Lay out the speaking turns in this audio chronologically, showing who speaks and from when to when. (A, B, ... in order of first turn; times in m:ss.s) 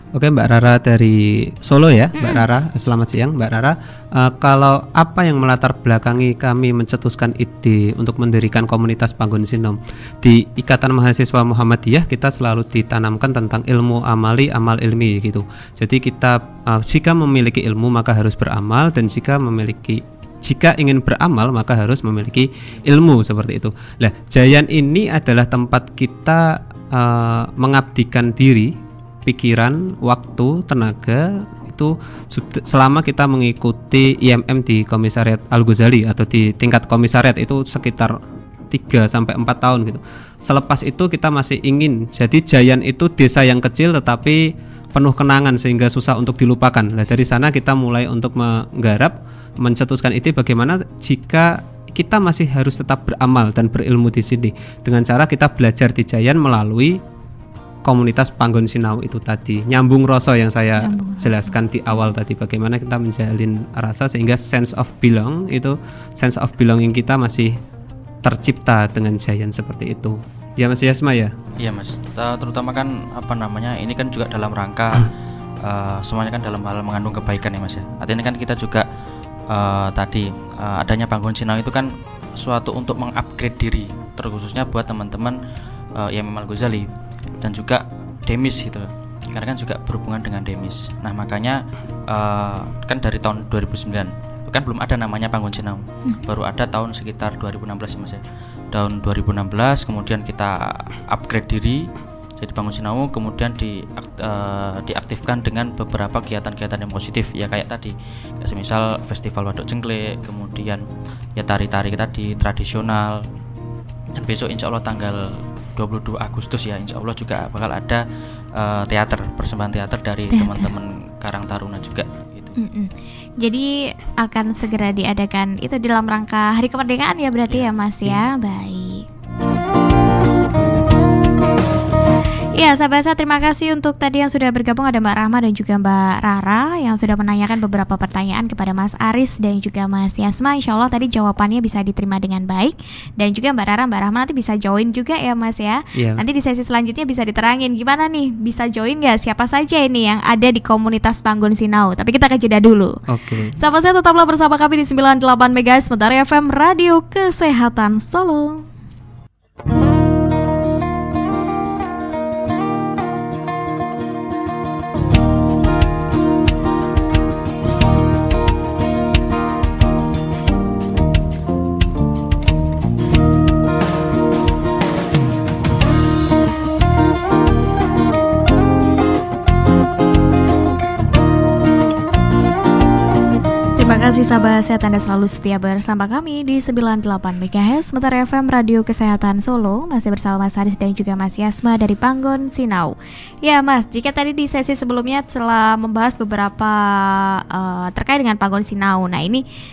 0:00.1-0:38.2 A
0:02.2-0:02.4 B
0:38.7-0:57.0 A
0:57.8-1:07.6 A
1:00.8-1:01.6 B
1:08.2-1:11.3 A
1:11.6-1:15.1 C
1:15.6-1:18.8 C
1:19.5-1:25.4 C
1:25.9-1:26.9 C
1:27.4-1:38.2 C
1:38.7-1:41.9 C
1:42.4-1:50.8 C
1:51.4-1:53.2 C
1:54.1-1:58.0 C
1:58.6-2:02.6 C
2:00.3-2:00.7 B
2:02.6-2:09.0 B
2:12.6-2:33.0 B
2:26.0-2:26.2 A
2:33.1-2:33.6 A
2:33.6-2:38.6 B
3:03.8-3:19.4 B